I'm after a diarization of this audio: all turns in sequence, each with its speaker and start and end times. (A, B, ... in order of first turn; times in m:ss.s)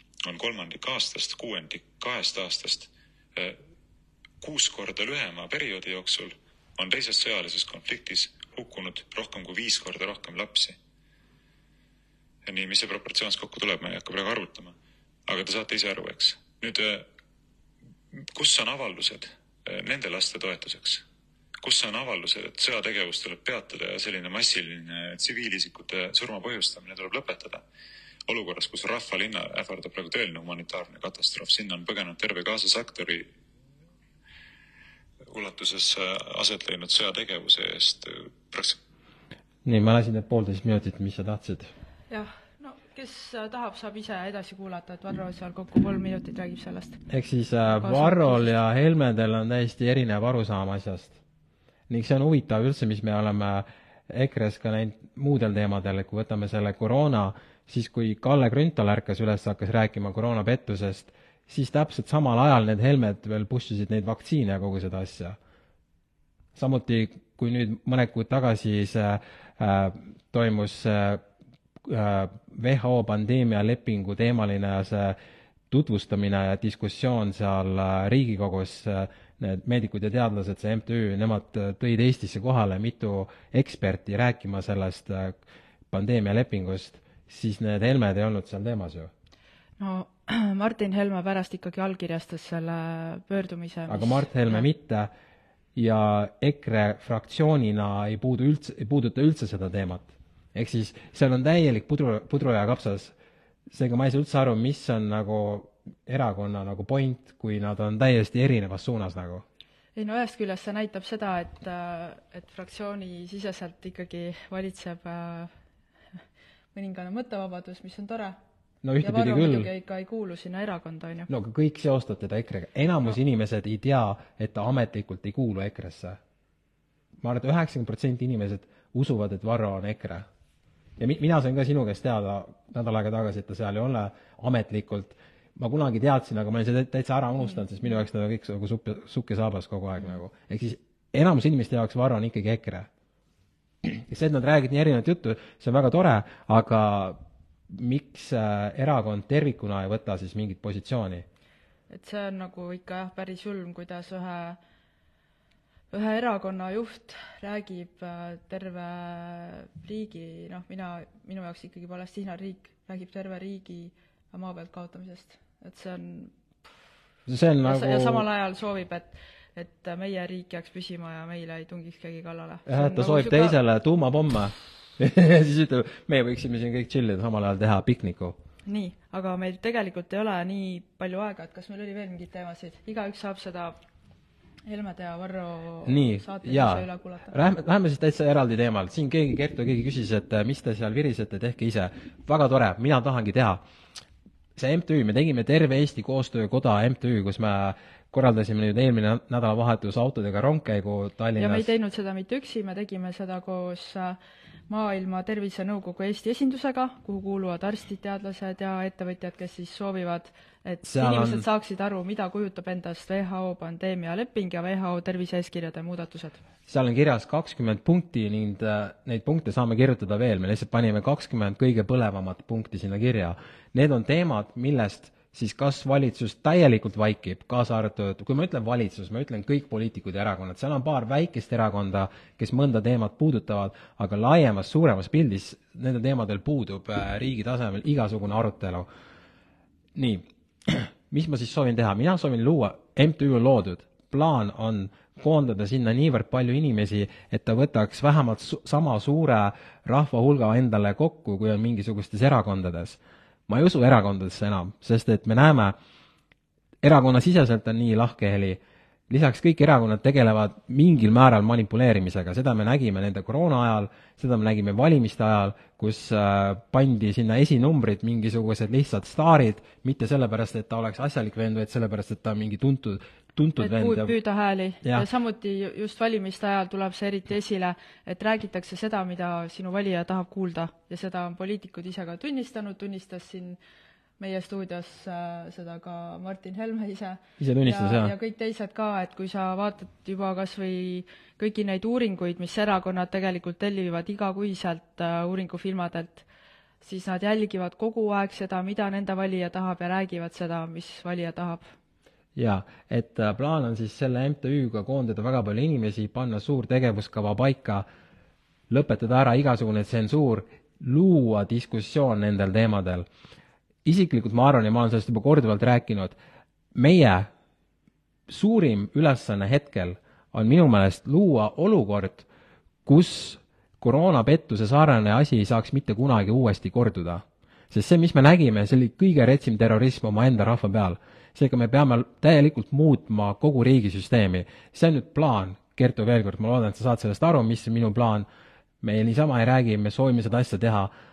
0:00.3-0:03.6 A
0:04.4-0:10.8 A
0:12.4-0:14.8 A
0:15.3-0:17.1 A
0:18.2-0:21.0 A
0:21.6-0:27.6 A
0:28.3-0:33.3 A
0:35.3-0:38.8 A
0:39.6-0:41.7 B
0:42.1-0:47.0 C
0:47.1-0:51.2 B
0:47.7-0:48.6 C
0:51.9-1:05.4 B
1:06.6-1:11.2 B
1:11.8-1:15.2 B
1:15.7-1:25.4 B
1:25.9-1:29.1 B
1:29.8-1:34.7 C
1:33.9-1:35.1 B
1:35.8-1:43.1 B
1:43.7-1:49.4 B
1:50.0-1:55.5 C
1:56.7-1:58.4 C
1:58.8-1:59.7 B
1:59.0-2:01.3 C
2:01.3-2:06.2 B
2:07.2-2:10.3 B
2:11.0-2:22.9 B
2:23.8-2:31.2 B
2:31.9-2:34.6 C
2:35.9-2:46.3 C
2:47.3-2:48.3 B
2:47.7-2:53.6 C
2:52.7-2:58.4 B
2:58.7-3:03.8 C
3:04.7-3:07.4 C
3:05.8-3:13.6 B
3:14.6-3:21.7 B
3:21.4-3:24.2 C
3:24.7-3:36.4 C
3:30.8-3:31.4 B
3:36.7-3:58.9 B
4:00.0-4:15.8 B
4:16.8-4:34.2 B
4:33.6-4:43.6 C
4:44.2-4:56.3 C
4:47.4-4:48.1 B
4:56.8-5:01.7 C
5:02.4-5:07.9 B
5:08.7-5:13.1 B
5:13.8-5:16.2 B
5:16.7-5:17.3 B
5:18.3-5:22.3 B
5:22.9-5:38.3 B
5:38.8-5:40.9 B